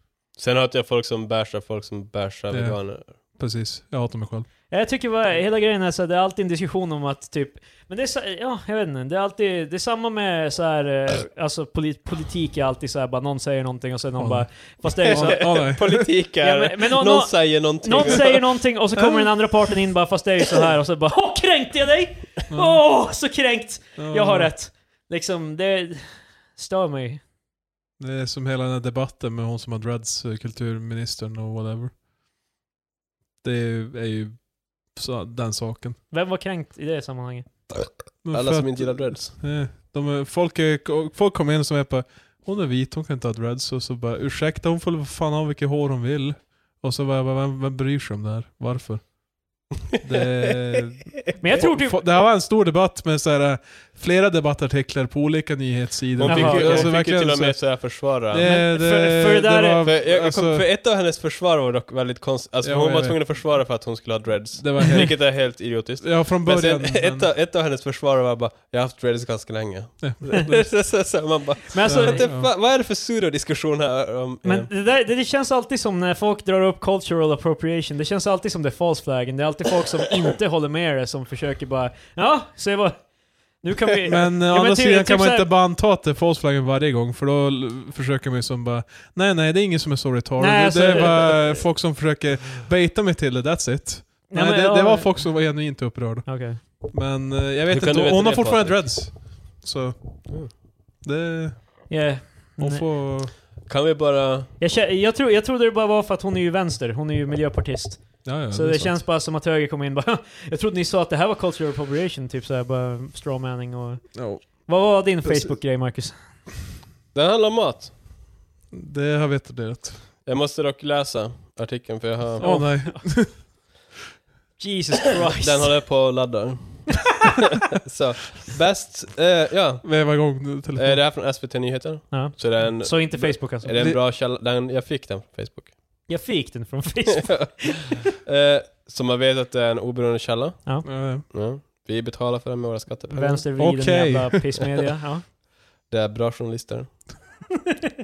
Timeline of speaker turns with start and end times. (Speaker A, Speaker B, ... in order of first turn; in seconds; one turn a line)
Speaker A: 0.4-3.1
Speaker B: 2.5-4.5
Speaker C: 4.7-15.5
Speaker B: 14.2-16.1
Speaker A: 15.1-18.7
Speaker C: 16.4-27.2
Speaker B: 22.5-22.9
Speaker B: 24.0-24.5
Speaker B: 28.0-32.0
Speaker B: 33.4-36.0
Speaker C: 36.1-37.5
Speaker A: 37.7-39.4
Speaker B: 38.2-60.6
Speaker C: 51.4-52.0
Speaker A: 56.2-58.6
Speaker C: 56.2-56.9
Speaker C: 58.4-59.9
Speaker A: 59.8-74.7
Speaker B: 62.6-63.2
Speaker B: 64.6-67.3
Speaker B: 70.0-70.6
Speaker C: 71.7-72.3
Speaker B: 71.9-72.5
Speaker C: 74.4-85.5
Speaker B: 84.1-102.0
Speaker C: 90.4-91.6
Speaker C: 94.3-95.6
Speaker C: 96.2-96.6
Speaker A: 97.7-98.9
Speaker C: 101.9-102.9
Speaker B: 102.6-103.3
Speaker A: 103.7-104.5
Speaker C: 104.6-116.2
Speaker B: 108.2-109.0
Speaker B: 114.2-114.7
Speaker B: 115.2-115.5
Speaker A: 117.1-118.0
Speaker B: 118.7-120.0
Speaker A: 120.2-122.5
Speaker B: 122.4-123.4
Speaker C: 122.4-123.4
Speaker C: 124.6-125.8
Speaker A: 125.4-136.0
Speaker B: 129.8-131.0
Speaker C: 132.1-133.8
Speaker B: 133.7-134.0
Speaker C: 136.1-137.9
Speaker A: 137.2-143.4
Speaker B: 140.8-141.3
Speaker C: 143.1-145.2
Speaker B: 143.5-144.7
Speaker A: 145.9-147.3